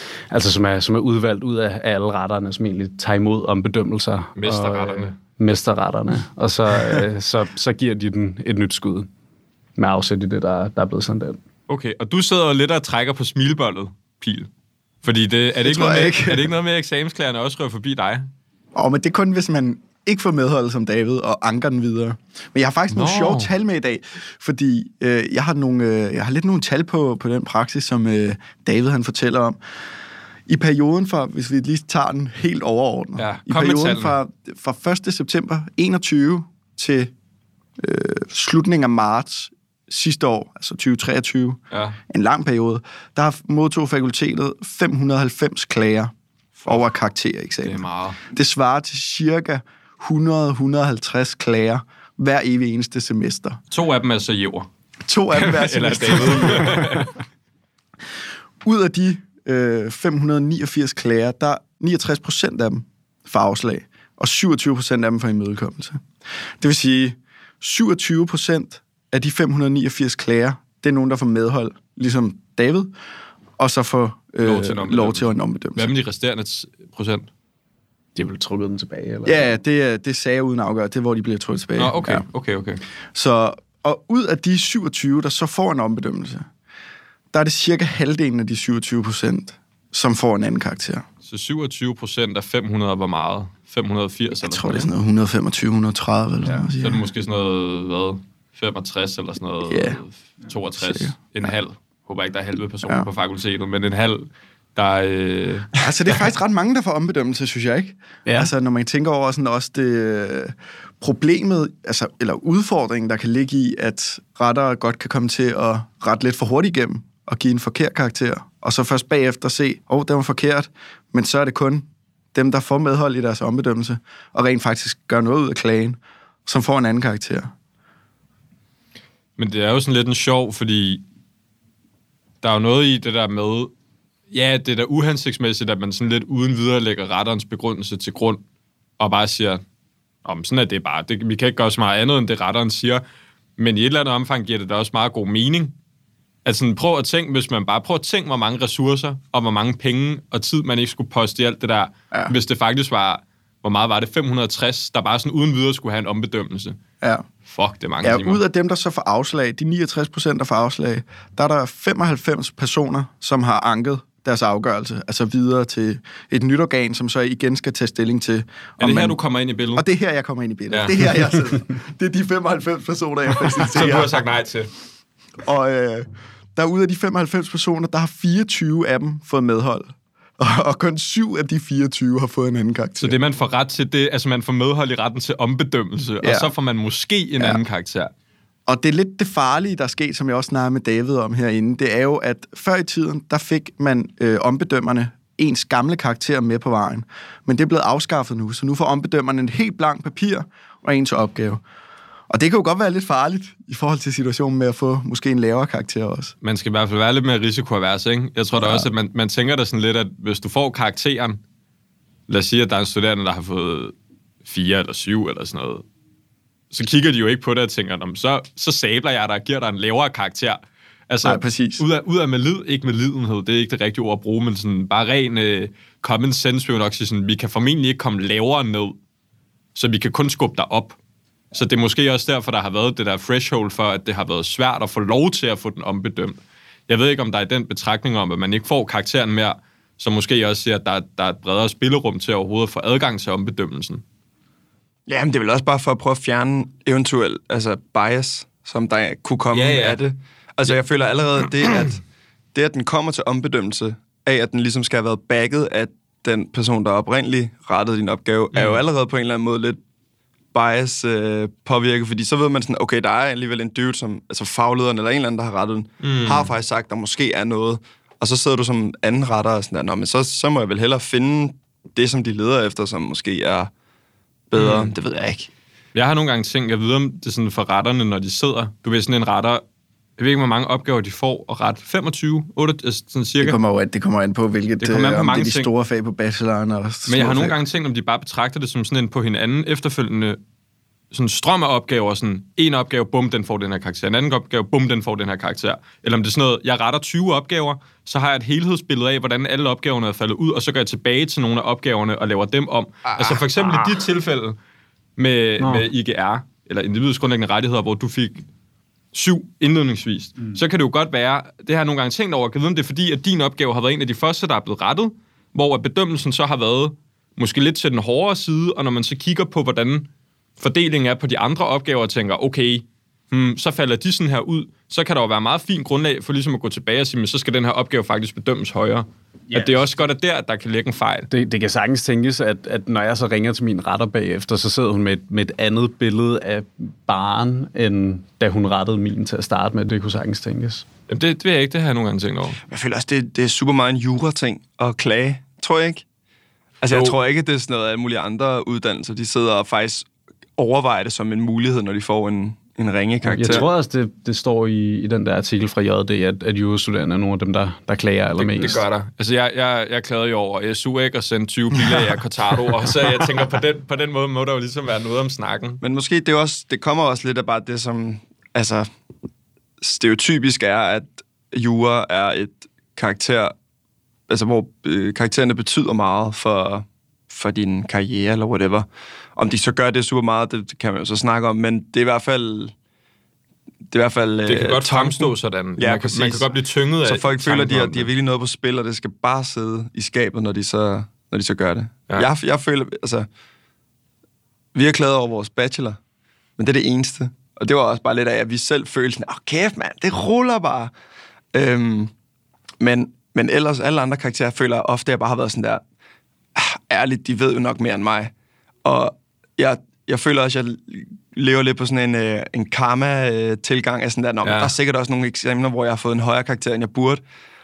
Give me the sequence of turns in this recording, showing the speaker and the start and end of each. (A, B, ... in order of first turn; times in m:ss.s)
0:00.3-0:09.1 A
0:04.4-0:05.2 B
0:09.8-0:11.4 A
0:11.7-0:14.5 B
0:15.0-0:18.3 B
0:15.6-0:16.5 C
0:18.7-0:29.6 C
0:22.9-0:23.5 B
0:30.5-0:37.1 C
0:33.2-0:34.2 B
0:37.8-0:53.6 C
0:41.7-0:42.0 B
0:47.6-0:48.2 B
0:53.7-0:54.7 B
0:55.1-0:57.0 C
0:55.3-0:57.2 B
0:58.6-1:06.0 C
1:06.6-1:12.9 C
1:13.6-1:15.9 C
1:14.4-1:17.3 B
1:18.2-1:19.4 A
1:19.2-1:22.2 C
1:21.8-1:22.8 B
1:23.1-1:26.5 C
1:27.3-1:31.0 C
1:31.2-1:34.9 B
1:34.4-1:37.1 C
1:36.4-1:45.7 B
1:39.7-1:40.0 C
1:40.8-1:41.5 C
1:45.8-2:07.5 C
1:48.2-1:48.5 A
2:09.4-2:11.0 B
2:12.4-2:13.7 B
2:14.3-2:18.4 B
2:19.0-2:19.6 B
2:20.2-2:23.0 B
2:23.6-2:25.7 B
2:26.4-2:36.8 B
2:37.5-2:38.4 B
2:38.0-2:49.2 C
2:48.8-2:49.8 B
2:49.8-2:54.2 C
2:50.7-2:50.9 B
2:53.4-2:54.7 B
2:55.4-3:03.2 C
3:03.0-3:08.1 B
3:06.2-3:06.5 C
3:08.7-3:21.6 C
3:22.3-3:26.3 C
3:26.4-3:31.4 B
3:28.6-3:28.9 C
3:32.3-3:33.9 B
3:34.4-3:35.8 B
3:36.7-3:49.0 B
3:41.2-3:41.8 C
3:49.7-3:51.0 B
3:51.5-4:04.0 B
4:05.1-4:12.0 D
4:09.5-4:10.0 B
4:11.5-4:11.8 B
4:12.5-4:19.8 D
4:18.5-4:18.8 B
4:20.5-4:33.7 D
4:26.0-4:26.5 B
4:34.5-4:35.5 D
4:34.6-4:34.9 B
4:35.9-4:39.6 B
4:40.2-4:43.6 B
4:43.4-4:47.6 C
4:44.8-4:45.7 B
4:47.1-4:50.4 B
4:51.1-5:04.6 B
5:03.0-5:04.0 D
5:05.2-5:08.4 B
5:05.6-5:05.9 A
5:09.1-5:20.1 B
5:20.6-5:31.3 B
5:29.5-5:29.8 A
5:31.3-5:40.8 A
5:41.1-5:42.6 B
5:42.7-5:46.0 D
5:46.8-5:53.7 D
5:46.8-5:47.2 B
5:53.2-5:58.8 A
5:58.4-6:05.8 B
6:05.8-6:08.9 D
6:09.8-6:13.5 D
6:14.3-6:22.7 D
6:23.9-6:26.5 D
6:24.4-6:28.1 B
6:27.0-6:33.3 D
6:34.7-6:36.0 D
6:36.6-6:40.9 D
6:41.5-6:42.1 D
6:42.8-6:45.8 D
6:46.6-6:48.3 D
6:48.8-6:57.2 D
6:54.4-6:54.7 B